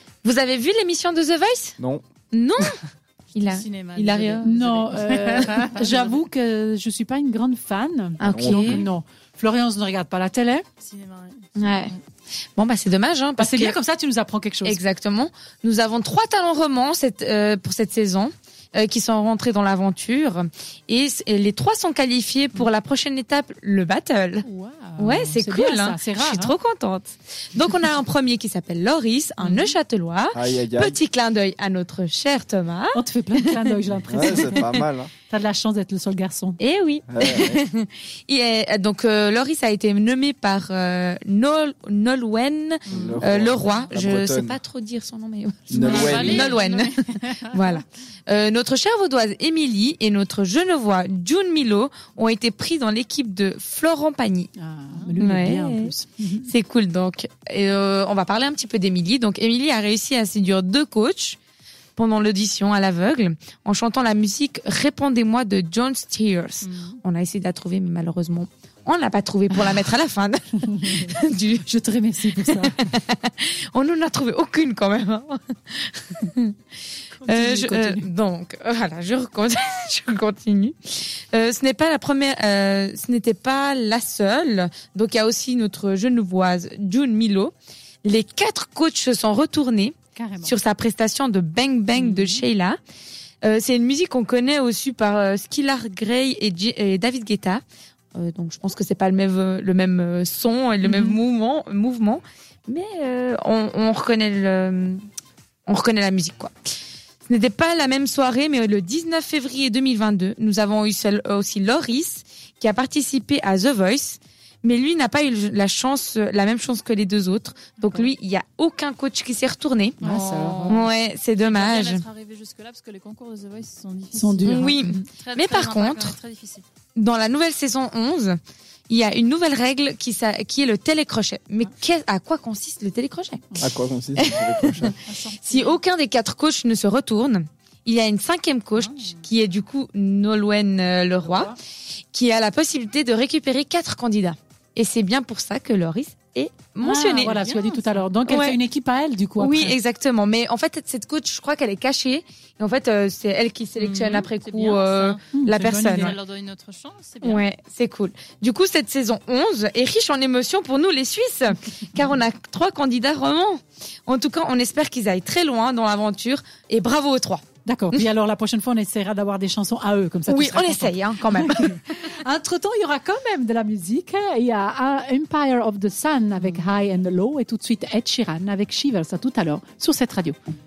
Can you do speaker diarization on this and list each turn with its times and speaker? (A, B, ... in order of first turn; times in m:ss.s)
0:00.2-0:01.8 A
0:01.8-0:02.0 B
0:02.3-0:02.7 A
0:03.3-0:04.5 A
0:03.4-0:06.2 C
0:04.4-0:10.6 D
0:08.2-0:08.8 A
0:08.2-0:08.8 B
0:10.8-0:12.0 C
0:11.6-0:11.9 A
0:12.6-0:13.8 A
0:13.4-0:14.8 D
0:14.6-0:24.4 A
0:24.4-0:26.5 D
0:25.0-0:33.7 A
0:29.4-0:29.7 D
0:30.3-0:31.0 B
0:32.9-0:34.6 D
0:34.0-0:35.1 B
0:34.5-0:34.8 A
0:35.3-0:36.6 D
0:36.6-0:54.5 A
0:37.1-0:37.6 B
0:42.9-0:43.2 C
0:42.9-0:44.6 B
0:45.7-0:46.6 B
0:45.7-0:47.8 C
0:54.6-0:56.5 D
0:55.2-1:01.4 A
1:02.0-1:11.7 A
1:06.6-1:07.0 C
1:10.6-1:11.0 D
1:11.6-1:12.8 D
1:12.4-1:16.6 A
1:17.2-1:18.0 D
1:17.2-1:27.5 A
1:28.0-1:32.8 A
1:30.1-1:30.6 D
1:31.9-1:32.4 D
1:33.4-1:37.6 A
1:38.1-1:45.0 A
1:40.8-1:41.2 D
1:45.7-1:46.5 A
1:47.3-2:00.0 A
2:00.0-2:06.6 C
2:00.0-2:00.9 D
2:00.7-2:02.0 A
2:04.1-2:05.0 D
2:04.5-2:06.1 A
2:07.0-2:08.4 A
2:08.9-2:21.6 A
2:13.6-2:14.9 B
2:15.0-2:15.8 D
2:18.8-2:19.2 D
2:21.2-2:21.6 D
2:22.1-2:28.6 A
2:26.8-2:29.8 D
2:29.4-2:36.1 A
2:33.8-2:35.2 C
2:35.3-2:36.2 D
2:35.8-2:37.4 C
2:37.2-2:48.0 A
2:47.6-3:00.4 D
2:50.3-2:51.7 A